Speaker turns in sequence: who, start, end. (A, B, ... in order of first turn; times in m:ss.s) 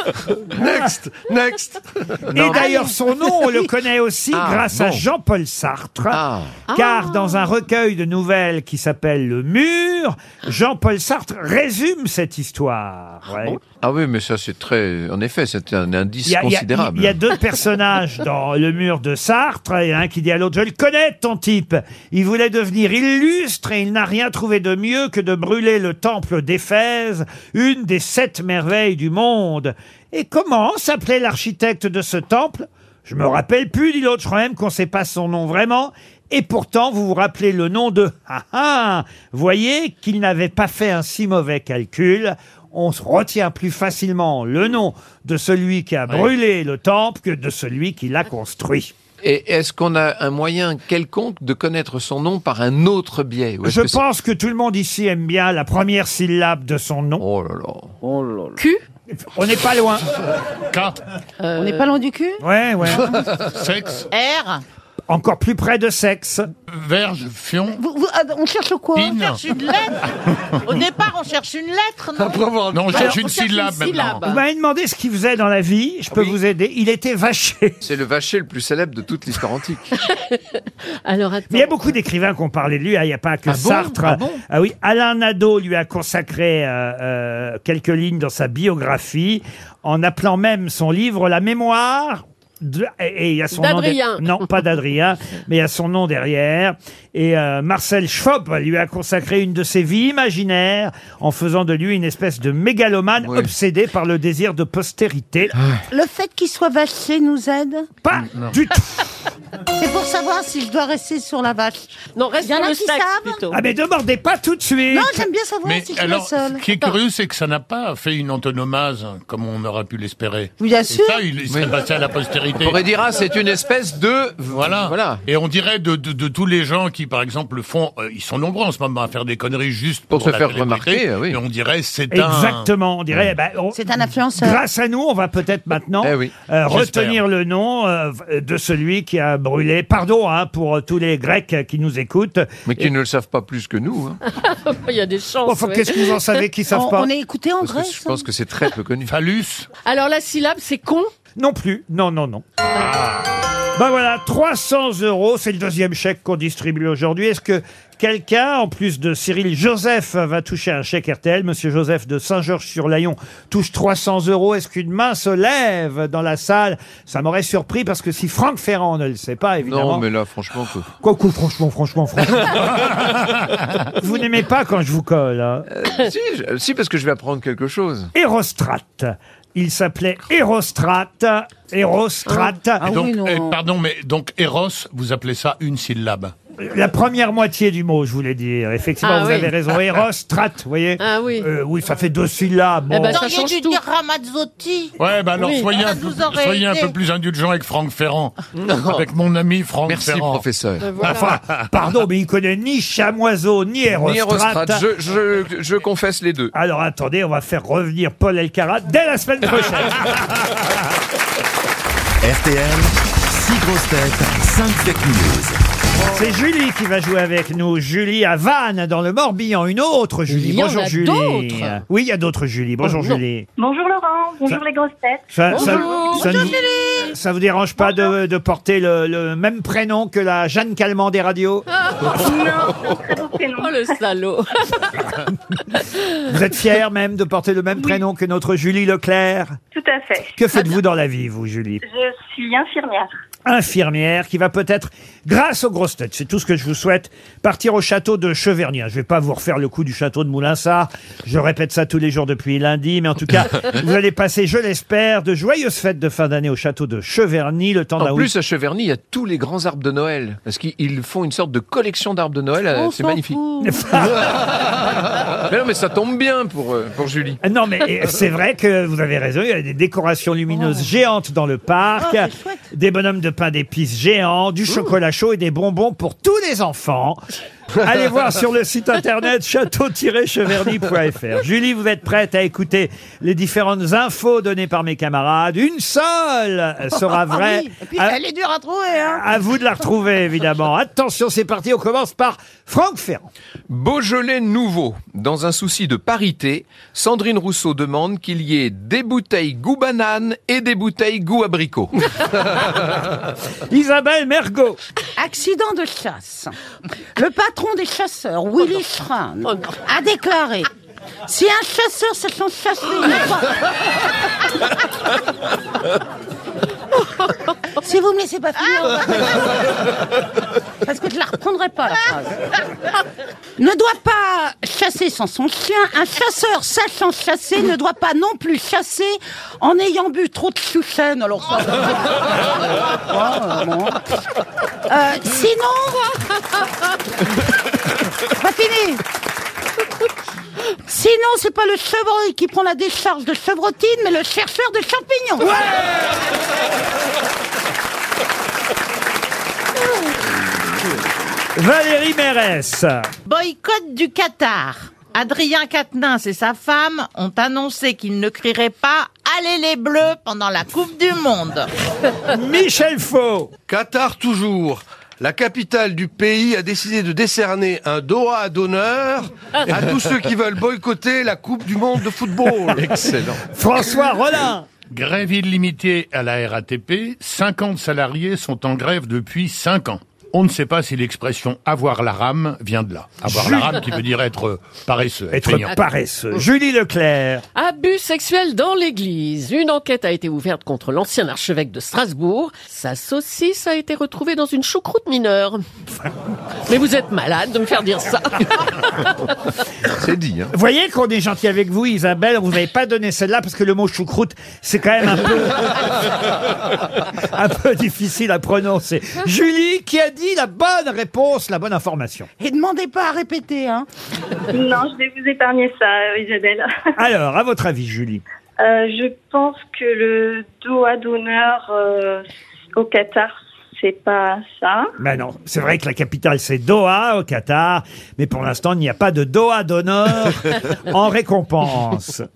0:00.5-0:02.4 A
0:02.3-0:13.6 B
0:02.5-0:03.7 C
0:04.3-0:05.0 D
0:06.1-0:06.6 D
0:06.7-0:07.5 E
0:13.4-0:17.2 D
0:16.2-0:48.9 B
0:49.2-0:54.0 D
0:53.6-0:57.2 B
0:57.2-0:57.9 D
0:58.1-0:58.5 C
0:58.6-0:58.8 E
0:59.2-1:00.0 B
1:00.7-1:01.0 F
1:01.4-1:01.9 E
1:01.5-1:02.4 C
1:02.4-1:03.2 B
1:03.3-1:04.1 F
1:04.1-1:04.6 G
1:05.1-1:06.5 B
1:06.7-1:07.8 F
1:07.8-1:09.1 C
1:09.0-1:09.4 F
1:09.0-1:10.0 G
1:10.6-1:13.3 G
1:12.2-1:12.7 A
1:12.7-1:14.2 F
1:12.9-1:14.4 E
1:14.2-1:17.8 B
1:17.8-1:19.9 D
1:20.0-1:21.9 E
1:21.5-1:45.5 B
1:23.5-1:24.4 D
1:33.5-1:34.5 E
1:43.2-1:43.5 D
1:45.6-1:45.8 D
1:45.9-1:47.9 C
1:48.0-1:49.0 B
1:49.8-1:53.5 C
1:52.1-1:53.6 E
1:53.5-1:55.3 B
1:54.9-1:56.6 C
1:55.6-2:02.8 F
2:00.6-2:01.2 C
2:02.6-2:05.2 D
2:04.5-2:12.7 F
2:10.1-2:11.4 D
2:12.1-2:13.8 B
2:13.7-2:14.6 C
2:14.4-2:22.9 B
2:16.0-2:16.3 D
2:16.7-2:17.2 F
2:22.6-2:24.2 D
2:24.3-2:26.4 E
2:25.4-2:27.1 B
2:26.7-2:28.2 C
2:27.6-2:29.1 D
2:29.1-2:29.7 F
2:29.8-2:31.1 E
2:31.4-2:32.4 B
2:32.8-2:33.2 F
2:33.8-2:50.0 B
2:49.7-2:50.9 D
2:51.0-2:53.3 B
2:54.0-2:55.7 B
2:55.7-2:58.1 D
2:58.1-3:02.9 B
3:02.8-3:03.6 C
3:02.9-3:06.3 F
3:06.6-3:13.3 B
3:09.0-3:09.5 E
3:11.0-3:11.5 E
3:12.9-3:13.8 E
3:13.1-3:14.9 G
3:15.0-3:20.4 F
3:15.4-3:15.7 E
3:15.7-3:17.0 G
3:18.6-3:19.0 D
3:19.9-3:20.9 D
3:20.8-3:21.3 E
3:21.0-3:24.8 B
3:24.0-3:26.5 D
3:26.5-3:30.1 B
3:32.2-3:35.6 H
3:36.1-3:43.5 B
3:40.3-3:41.8 E
3:42.8-3:43.2 E
3:43.6-3:45.8 I
3:45.3-3:51.6 B
3:45.5-3:46.5 E
3:45.5-3:47.1 C
3:47.8-3:48.1 I
3:52.1-3:53.9 I
3:53.6-3:54.8 E
3:56.3-3:59.6 B
3:57.7-3:58.0 I
3:59.7-4:00.4 I
4:00.4-4:01.8 B
4:01.8-4:03.1 I
4:03.4-4:18.3 B
4:18.0-4:23.4 D
4:22.7-4:23.9 C
4:23.6-4:24.3 B
4:25.4-4:27.4 D
4:27.4-4:37.2 B
4:30.5-4:30.8 C
4:32.0-4:32.7 C
4:37.8-4:48.2 B
4:46.9-4:49.3 C
4:49.1-4:53.3 B
4:53.7-5:02.0 D
5:03.7-5:04.8 B
5:05.2-5:06.5 C
5:07.2-5:10.7 C
5:11.2-5:13.6 C
5:17.8-5:19.8 C
5:20.8-5:22.4 C
5:23.6-5:34.0 C
5:34.9-5:36.2 C
5:38.3-5:39.0 C
5:40.9-5:45.7 C
5:51.5-5:53.1 B
5:53.3-6:01.7 G
6:02.3-6:03.5 B
6:03.7-6:13.3 A
6:12.7-6:13.4 D
6:13.5-6:14.7 B
6:14.9-6:25.7 F
6:23.3-6:23.8 B
6:25.3-6:27.4 B
6:27.5-6:35.6 E
6:36.7-6:39.1 E
6:40.0-6:40.5 D
6:40.5-6:45.7 B
6:47.1-6:52.3 B
6:52.4-6:53.9 C
6:54.5-6:56.7 I
6:57.0-6:58.2 B
6:58.6-7:02.2 I
7:02.8-7:04.9 I
7:05.0-7:12.3 B